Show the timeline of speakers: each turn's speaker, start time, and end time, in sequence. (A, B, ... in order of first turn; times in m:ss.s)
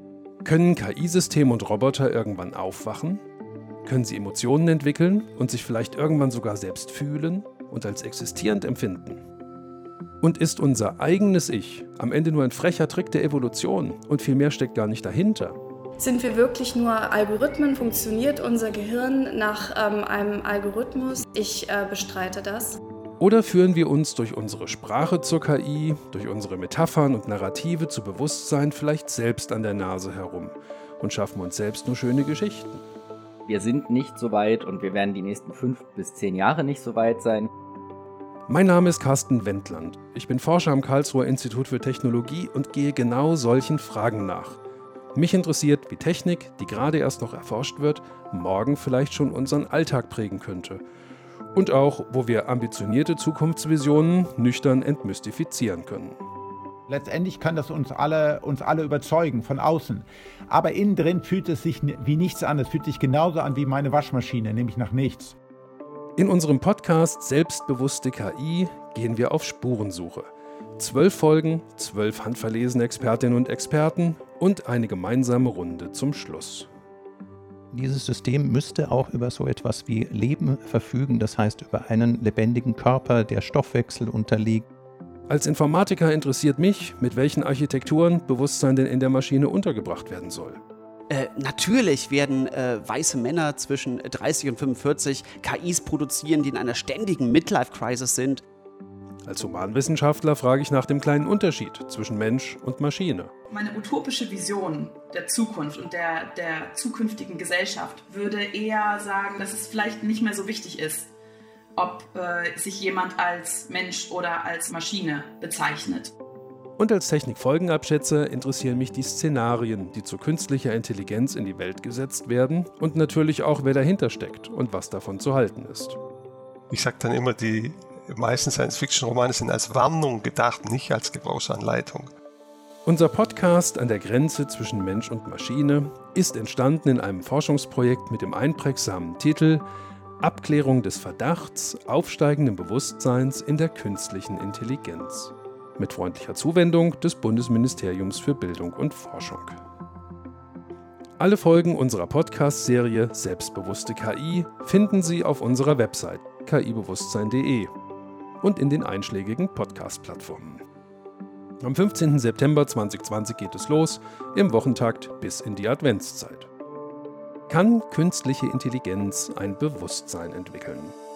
0:00.4-0:03.2 A
0:03.8-0:09.2 A
0:10.2-0:15.6 A
0:16.0-0:22.8 B
0:23.2-0:32.8 A
0:33.5-0:37.5 C
0:38.5-0:44.6 A
0:45.1-0:50.8 A
0:51.5-0:56.2 A
0:56.9-1:05.3 D
1:06.2-1:16.7 A
1:17.7-1:24.6 E
1:25.3-1:30.6 A
1:31.1-1:38.4 F
1:39.2-1:43.3 A
1:43.5-1:51.1 G
1:51.8-1:56.1 G
1:56.8-2:06.0 A
2:06.7-2:12.1 H
2:12.8-2:19.6 A
2:20.2-2:29.6 A
2:31.2-2:37.7 A
2:38.4-2:40.6 A
2:41.6-2:46.5 A
2:47.5-2:50.9 A